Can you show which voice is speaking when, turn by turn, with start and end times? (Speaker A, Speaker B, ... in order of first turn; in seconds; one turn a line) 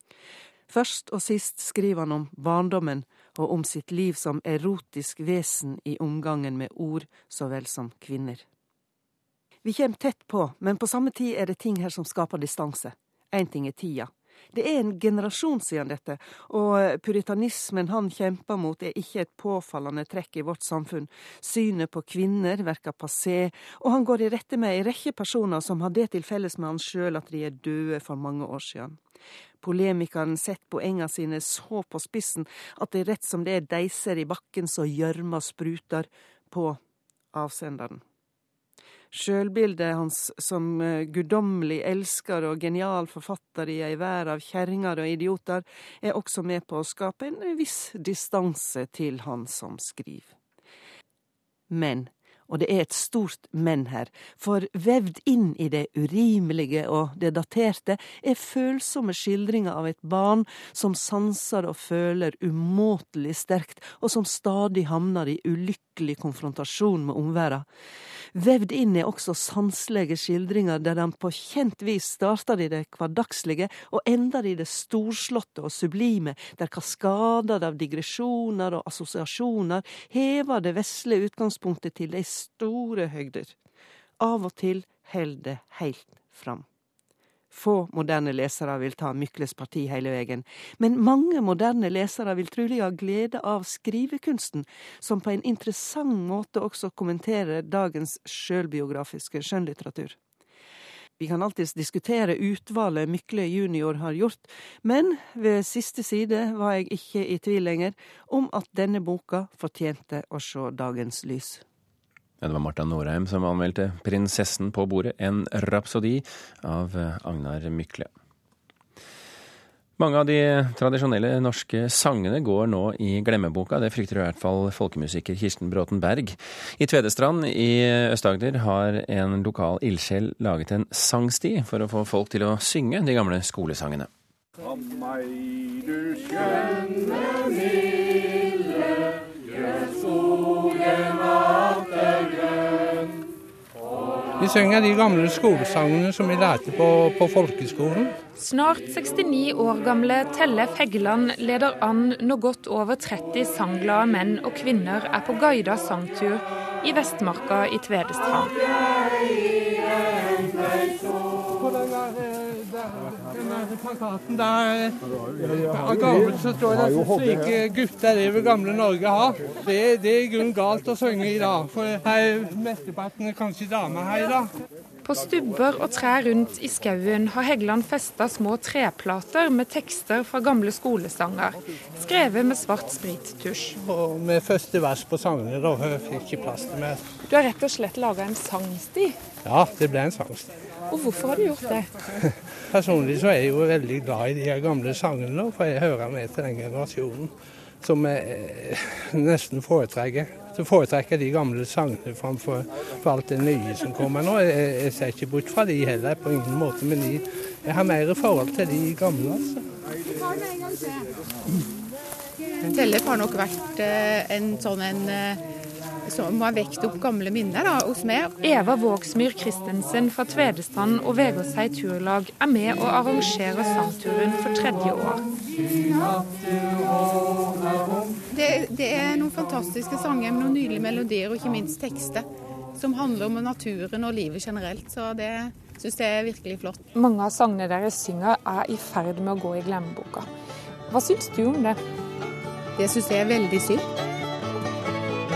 Speaker A: 0.7-8.4
Speaker A: 9.6-29.0
Speaker A: 29.6-36.8
Speaker A: 37.3-38.0
Speaker A: 39.1-50.3
Speaker A: 51.7-67.6
Speaker A: 68.3-83.5
Speaker A: 84.2-86.6
Speaker A: 87.5-100.2
Speaker A: 101.2-111.6
Speaker B: 112.4-118.1
Speaker B: 120.0-134.1
Speaker C: 144.4-148.2
Speaker D: 148.3-158.5
Speaker C: 161.6-174.5
Speaker D: 175.1-183.8
Speaker C: 183.8-187.0
Speaker D: 187.3-189.2
Speaker C: 189.4-190.5
Speaker D: 190.9-191.9
Speaker C: 192.2-209.6
Speaker E: 212.7-215.4
Speaker E: 216.1-218.4
Speaker D: 218.4-225.2
Speaker E: 228.3-232.3
Speaker E: 232.8-236.9
Speaker D: 236.9-240.3
Speaker D: 240.9-241.8
Speaker E: 242.8-243.8